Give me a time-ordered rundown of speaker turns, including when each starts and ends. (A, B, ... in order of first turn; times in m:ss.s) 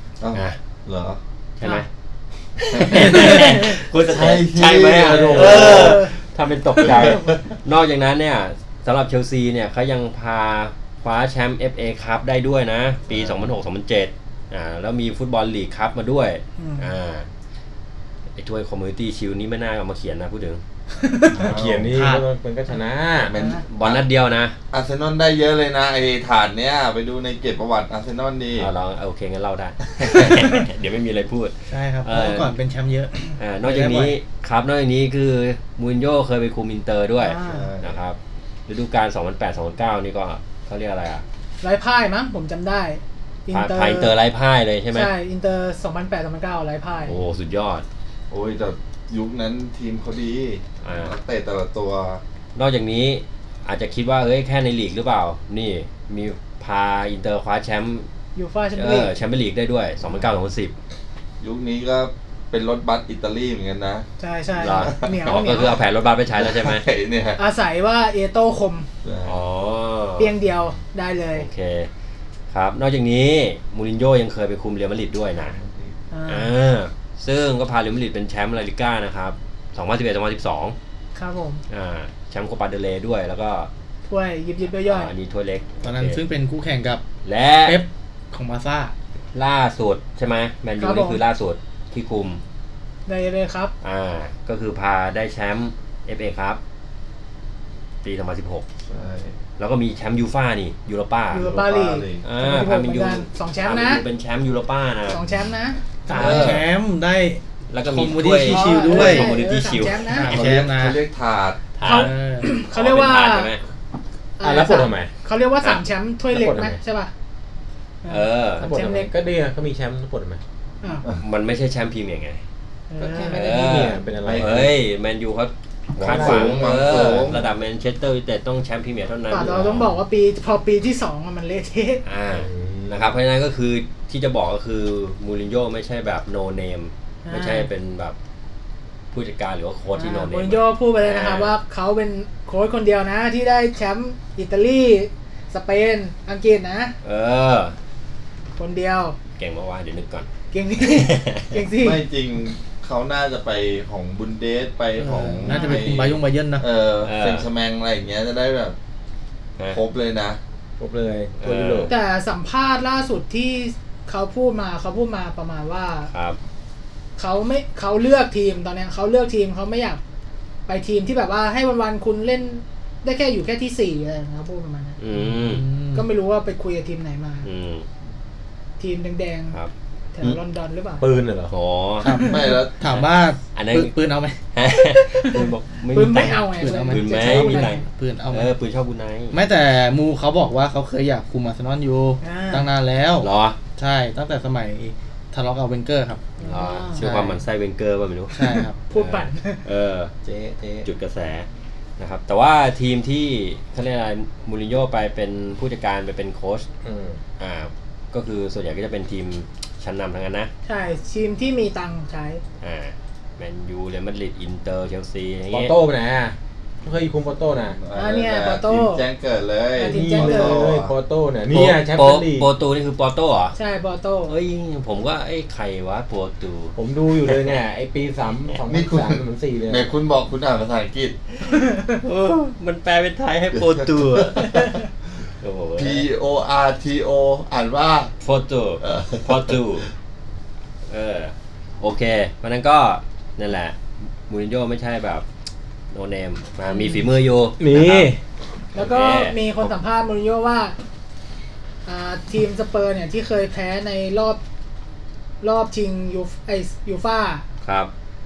0:00.2-0:01.2 A
0:01.6-0:01.9 B
0:02.6-0:17.3 B
0:02.7-0:06.1 A
0:03.1-0:03.7 C
0:05.0-0:06.0 D
0:05.4-0:06.2 C
0:06.8-0:07.4 A
0:06.9-0:07.3 C
0:16.6-0:16.9 C
0:18.4-0:20.6 B
0:21.0-0:21.5 C
0:21.3-0:22.1 A
0:21.4-0:23.3 D
0:21.9-0:22.3 E
0:23.2-0:24.0 A
0:23.3-0:23.6 C
0:23.7-0:24.6 B
0:24.7-0:28.7 A
0:28.6-0:32.5 B
0:30.0-0:30.3 A
0:31.7-0:34.2 E
0:33.4-0:41.2 B
0:37.2-0:37.7 C
0:37.4-0:38.0 A
0:41.6-0:44.1 C
0:43.5-0:45.1 B
0:44.9-0:47.2 C
0:47.1-0:47.8 B
0:48.3-0:52.2 A
0:50.8-0:51.2 B
0:52.6-0:58.1 B
0:58.4-0:59.1 C
0:58.8-1:00.7 B
1:01.4-1:04.1 A
1:04.2-1:05.8 C
1:04.6-1:06.8 B
1:04.9-1:05.4 A
1:06.4-1:07.4 A
1:07.4-1:08.9 C
1:09.0-1:09.4 A
1:09.2-1:10.3 B
1:10.2-1:11.5 C
1:11.4-1:11.9 B
1:12.5-1:15.6 B
1:15.4-1:15.9 A
1:16.1-1:16.5 C
1:16.3-1:20.8 B
1:21.2-1:21.6 C
1:21.7-1:23.7 B
1:24.1-1:25.1 C
1:24.8-1:26.2 B
1:25.8-1:27.0 E
1:27.2-1:27.8 B
1:27.6-1:28.9 E
1:29.3-1:32.4 B
1:30.8-1:31.2 C
1:33.1-1:33.7 C
1:33.8-1:36.6 B
1:38.0-1:38.7 B
1:38.9-1:39.4 A
1:39.6-1:41.5 B
1:41.3-1:44.0 C
1:41.4-1:42.2 A
1:42.2-1:45.2 B
1:45.1-1:46.4 C
1:46.1-1:49.4 E
1:46.1-1:46.7 B
1:47.7-1:50.4 B
1:48.4-1:50.3 C
1:50.1-1:51.0 E
1:50.3-1:51.7 A
1:51.8-1:53.6 B
1:51.8-1:53.5 C
1:51.9-1:52.5 E
1:54.4-1:57.1 C
1:54.4-1:55.1 D
1:56.3-1:56.8 D
1:58.0-1:59.1 C
1:58.1-1:58.7 B
1:58.6-2:00.4 D
2:01.2-2:02.4 B
2:02.9-2:03.5 C
2:03.0-2:04.7 D
2:03.3-2:10.0 B
2:04.2-2:04.7 A
2:06.0-2:07.4 A
2:06.0-2:07.4 D
2:09.3-2:12.0 C
2:12.0-2:18.2 B
2:12.3-2:13.1 D
2:17.3-2:17.7 C
2:19.1-2:21.6 B
2:20.0-2:27.0 C
2:27.0-2:27.8 B
2:28.6-2:29.2 C
2:29.4-2:30.3 B
2:30.5-2:32.0 C
2:30.8-2:31.6 B
2:31.7-2:38.8 A
2:35.0-2:36.6 E
2:35.5-2:35.9 C
2:37.0-2:37.5 B
2:39.7-2:40.4 A
2:40.8-2:41.9 D
2:41.4-2:41.9 B
2:41.9-2:46.1 C
2:46.1-2:46.4 B
2:47.2-2:50.0 C
2:50.7-2:55.0 C
2:55.0-2:55.7 B
2:55.1-2:56.0 E
2:55.9-2:57.5 C
2:57.4-2:57.9 B
2:58.8-2:59.6 C
2:59.5-3:00.4 B
3:00.2-3:01.1 C
3:01.0-3:01.5 D
3:01.5-3:02.2 B
3:02.0-3:04.4 E
3:02.0-3:02.5 C
3:02.2-3:02.8 A
3:02.9-3:03.9 B
3:04.5-3:09.4 B
3:05.0-3:07.8 C
3:06.5-3:08.5 E
3:09.3-3:16.3 E
3:12.2-3:12.7 C
3:13.2-3:13.6 B
3:16.4-3:17.0 C
3:16.4-3:18.4 B
3:17.0-3:17.4 E
3:18.3-3:18.8 E
3:18.4-3:19.6 C
3:18.9-3:20.1 B
3:20.2-3:20.9 D
3:20.8-3:21.5 B
3:22.0-3:26.7 B
3:26.8-3:27.2 D
3:27.4-3:30.5 B
3:30.7-3:32.4 C
3:32.6-3:35.7 B
3:35.5-3:37.8 D
3:37.8-3:41.0 A
3:37.9-3:39.0 C
3:39.8-3:40.6 C
3:39.9-3:42.5 D
3:41.5-3:43.6 B
3:43.6-3:44.3 C
3:44.3-3:46.8 B
3:46.8-3:49.9 D
3:48.7-3:51.2 A
3:51.5-3:52.0 C
3:51.9-3:54.6 B
3:53.6-3:54.7 A
3:55.4-3:56.1 B
3:55.8-3:58.1 A
3:58.2-3:59.9 B
3:58.8-3:59.5 A
4:00.9-4:05.3 B
4:05.9-4:08.1 B
4:06.7-4:07.0 C
4:07.6-4:08.2 D
4:08.8-4:09.7 B
4:08.8-4:10.8 C
4:11.9-4:14.4 C
4:15.4-4:17.4 C
4:17.6-4:17.9 B